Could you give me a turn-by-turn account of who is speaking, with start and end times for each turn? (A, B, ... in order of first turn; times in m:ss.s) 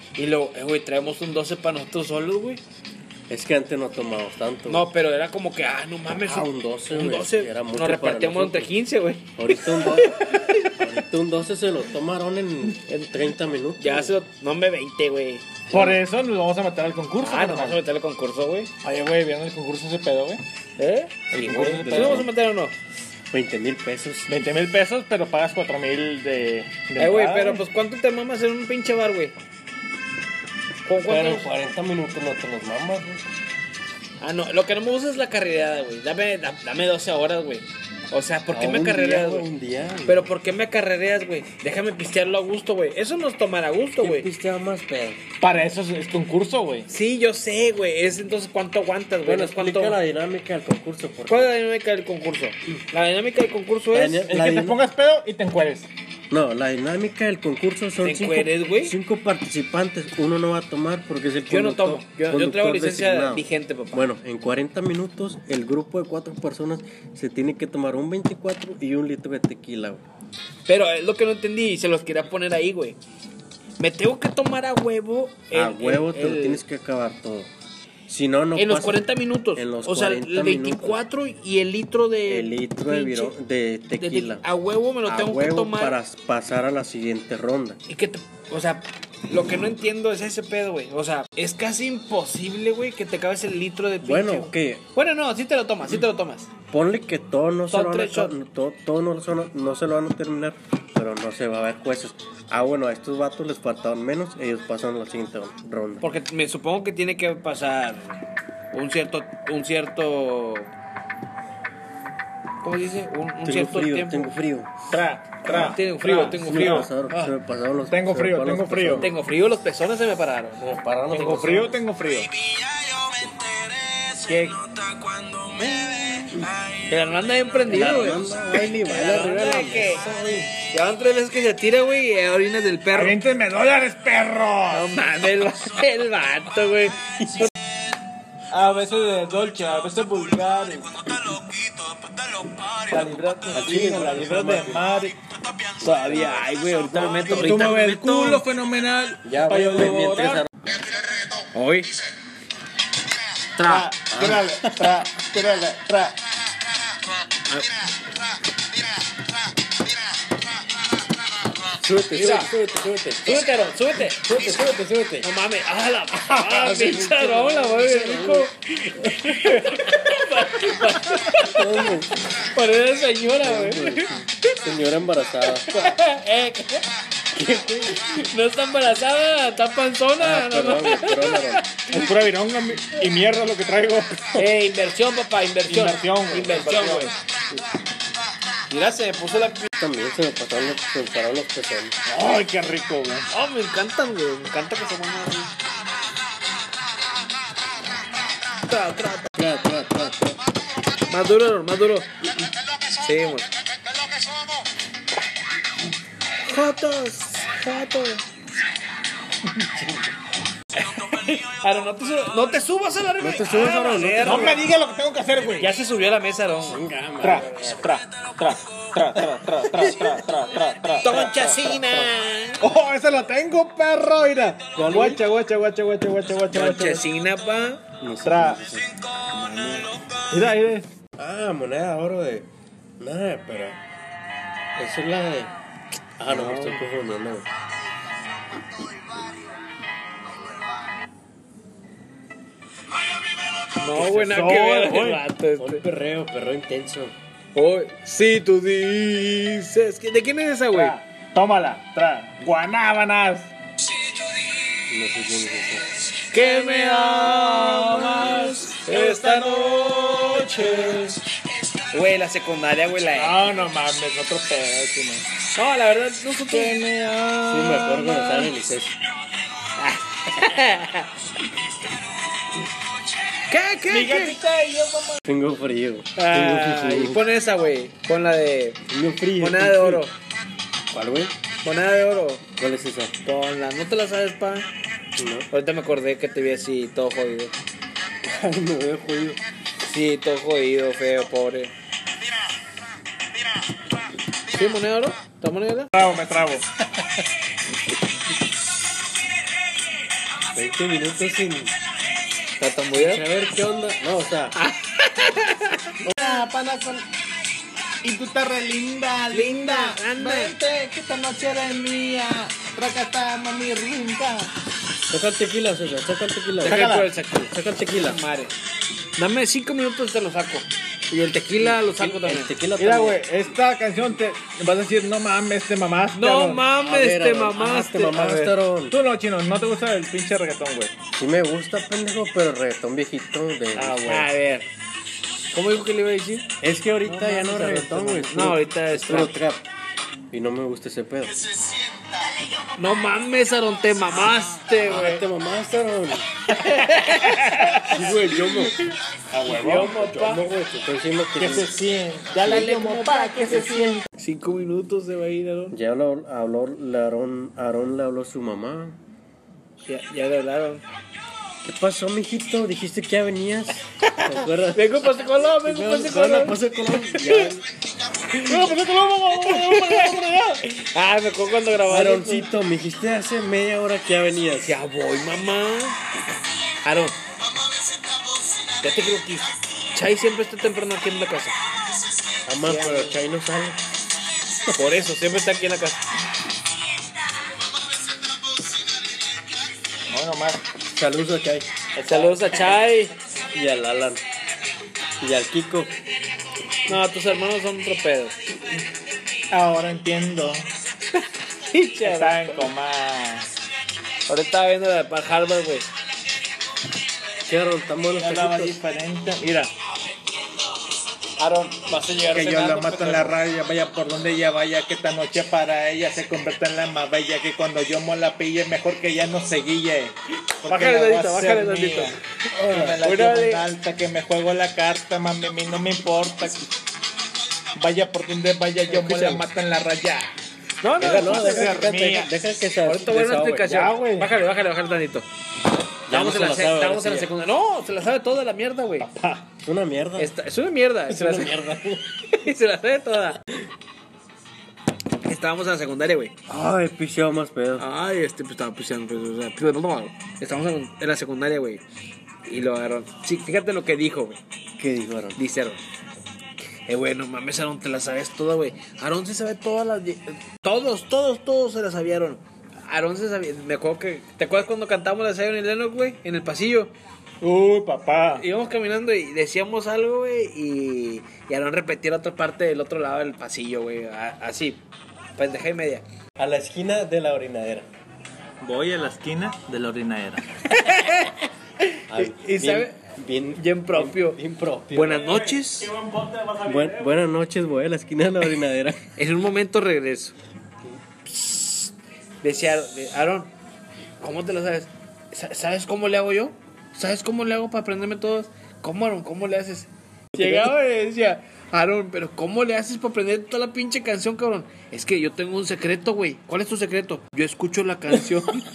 0:00.2-0:02.6 A
0:03.3-0:04.9 B
0:04.7-0:10.8 A
0:06.2-0:08.7 B
0:09.4-0:14.1 B
0:12.9-0:13.2 A
0:13.8-0:15.6 A
0:15.7-0:17.8 C
0:15.7-0:16.0 B
0:17.2-0:18.7 A
0:18.8-0:20.4 C
0:20.8-0:22.8 A
0:21.3-0:22.2 C
0:21.4-0:22.3 B
0:23.3-0:24.3 B
0:24.3-0:27.6 C
0:27.0-0:29.4 A
0:30.8-0:31.5 A
0:31.0-0:33.3 B
0:34.2-0:39.5 A
0:38.5-0:40.3 B
0:40.1-0:44.3 A
0:44.0-0:45.2 B
0:45.4-0:46.9 C
0:46.9-0:50.0 A
0:49.2-0:51.5 B
0:51.3-0:54.3 A
0:53.9-0:54.8 B
0:54.3-0:55.9 C
0:56.3-1:10.0 B
0:58.0-0:59.0 A
1:01.5-1:04.0 A
1:10.7-1:13.0 A
1:13.8-1:16.6 A
1:15.5-1:17.5 B
1:18.1-1:21.0 B
1:18.6-1:23.3 A
1:22.3-1:24.4 B
1:24.0-1:26.0 A
1:25.1-1:27.8 B
1:27.9-1:36.5 A
1:34.0-1:34.8 B
1:36.7-1:46.0 B
1:37.7-1:38.4 A
1:46.0-1:48.2 A
1:48.7-1:50.7 A
1:52.6-1:54.3 A
1:53.4-1:54.7 B
1:54.9-1:56.9 C
1:55.4-1:57.4 A
1:56.3-1:59.2 B
1:57.9-1:59.1 C
1:59.0-2:00.6 A
2:00.6-2:01.8 B
2:01.1-2:02.3 C
2:01.2-2:01.6 A
2:04.3-2:04.6 C
2:06.2-2:06.5 B
2:06.8-2:08.3 A
2:07.7-2:10.5 B
2:08.8-2:10.1 A
2:10.6-2:13.2 A
2:12.9-2:14.9 C
2:14.7-2:17.5 A
2:17.2-2:17.5 B
2:18.5-2:21.4 C
2:22.8-2:25.2 C
2:23.5-2:24.9 B
2:25.8-2:27.7 B
2:25.8-2:28.4 A
2:27.2-2:30.5 C
2:29.2-2:30.5 B
2:31.5-2:32.0 A
2:33.6-2:33.9 A
2:33.6-2:36.2 C
2:34.1-2:34.9 B
2:41.8-2:43.5 B
2:42.1-2:42.5 A
2:43.2-2:44.3 A
2:44.1-2:45.3 B
2:45.2-2:54.5 A
2:46.2-2:48.5 B
2:51.3-2:52.1 B
2:53.4-2:55.8 B
2:55.7-2:56.9 A
2:57.3-2:58.1 B
2:58.0-3:02.1 A
3:00.2-3:01.6 B
3:01.9-3:04.4 C
3:04.3-3:07.2 A
3:05.7-3:07.2 C
3:08.7-3:09.7 A
3:09.8-3:12.0 B
3:12.1-3:13.3 C
3:13.3-3:15.5 A
3:18.6-3:19.3 A
3:19.3-3:20.4 B
3:21.1-3:22.4 A
3:22.9-3:23.5 A
3:26.5-3:28.2 A
3:29.8-3:30.0 B
3:30.8-3:34.6 A
3:33.2-3:34.6 B
3:34.2-3:35.8 C
3:35.6-3:36.8 A
3:36.6-3:37.8 B
3:37.2-3:47.1 C
3:41.0-3:42.6 A
3:44.8-3:45.2 B
3:46.5-3:47.8 A
3:48.0-3:48.9 B
3:48.2-3:48.6 C
3:49.3-3:50.1 A
3:50.3-3:50.9 C
3:51.2-3:52.5 B
3:53.0-3:53.8 B
3:54.8-3:55.5 B
3:56.2-3:57.5 B
3:56.3-3:56.8 A
4:03.8-4:05.8 A
4:04.0-4:05.2 C
4:05.6-4:07.2 B
4:07.6-4:11.0 A
4:10.7-4:13.5 C
4:14.9-4:15.9 B
4:16.3-4:21.1 A
4:16.3-4:21.2 C
4:21.9-4:23.5 A
4:23.1-4:25.3 C
4:25.6-4:26.8 A
4:26.5-4:28.4 C
4:27.4-4:29.0 B
4:29.8-4:31.1 A
4:33.5-4:34.4 A
4:33.9-4:35.2 C
4:35.2-4:37.2 B
4:36.2-4:38.8 A
4:38.9-4:40.0 B
4:39.4-4:40.2 A
4:40.9-4:41.4 B
4:41.6-4:42.4 A
4:42.6-4:43.2 B
4:43.2-4:44.7 A
4:45.2-4:45.5 B
4:45.5-4:47.5 A
4:48.2-4:49.4 B
4:49.8-4:51.7 A
4:54.5-4:56.0 A
4:55.9-4:56.7 C
5:00.5-5:01.8 B
5:02.6-5:03.2 A
5:02.9-5:04.6 B
5:04.6-5:06.0 A
5:06.0-5:07.0 C
5:08.0-5:14.5 C
5:09.3-5:10.6 A
5:15.1-5:16.9 B
5:16.6-5:18.6 A
5:16.6-5:17.1 C
5:17.5-5:18.2 B
5:19.2-5:22.5 A
5:21.6-5:23.2 B
5:22.8-5:26.6 C
5:26.2-5:28.5 A
5:26.8-5:29.0 B
5:28.9-5:30.9 C
5:31.2-5:34.3 B
5:33.8-5:34.7 A
5:35.5-5:36.5 A
5:36.6-5:39.6 B
5:37.0-5:39.4 A
5:40.3-5:41.4 B
5:42.8-5:45.2 A
5:44.8-5:46.3 B
5:46.5-5:48.0 A
5:46.6-5:48.2 C
5:47.8-5:48.8 B
5:49.3-5:50.1 C
5:49.5-5:50.4 A
5:49.7-5:51.8 B
5:51.4-5:54.1 C
5:52.4-5:55.8 A
5:55.7-5:59.0 B
5:59.9-6:00.8 A
6:01.6-6:07.7 B
6:04.0-6:07.5 A
6:08.3-6:08.7 A
6:08.4-6:10.6 C
6:09.4-6:12.5 A
6:11.9-6:14.8 B
6:14.6-6:16.0 A
6:16.8-6:17.2 A
6:18.8-6:21.6 A
6:22.5-6:23.8 B
6:22.6-6:23.2 A
6:24.7-6:26.0 A
6:30.1-6:30.6 C
6:30.9-6:31.7 B
6:32.0-6:32.5 C
6:32.0-6:33.1 A
6:33.5-6:34.2 B
6:35.2-6:36.0 B
6:36.9-6:38.4 A
6:39.5-6:40.7 C
6:41.7-6:42.7 A
6:42.0-6:43.5 C
6:44.3-6:45.9 A
6:47.5-6:48.8 B
6:48.2-6:49.7 C
6:51.4-6:53.3 A
6:52.3-7:06.7 C
7:00.6-7:03.6 A
7:07.8-7:10.3 C
7:08.9-7:09.4 A
7:10.8-7:11.8 A
7:11.0-7:12.4 C
7:11.0-7:13.9 B
7:12.8-7:15.3 A
7:13.7-7:14.3 C
7:16.1-7:17.3 B
7:16.1-7:19.1 A
7:19.0-7:19.5 C
7:19.6-7:20.3 B
7:20.2-7:21.6 A
7:21.1-7:22.0 B
7:22.3-7:23.4 A
7:25.2-7:26.4 A
7:26.5-7:27.9 B
7:27.8-7:31.8 A
7:32.5-7:34.4 A
7:34.8-7:35.4 B
7:35.4-7:35.8 A
7:36.9-7:46.9 A
7:47.4-7:48.4 C
7:48.3-7:54.8 A
7:55.4-7:56.0 A
7:56.4-7:57.9 B
7:58.6-8:00.6 C
8:00.7-8:03.0 A
8:02.1-8:05.4 B
8:03.6-8:04.4 A
8:04.9-8:05.9 A
8:05.2-8:07.1 C
8:06.6-8:09.0 B
8:09.2-8:10.4 A
8:11.3-8:13.5 A
8:14.2-8:28.7 A
8:20.4-8:20.7 B
8:28.1-8:28.4 B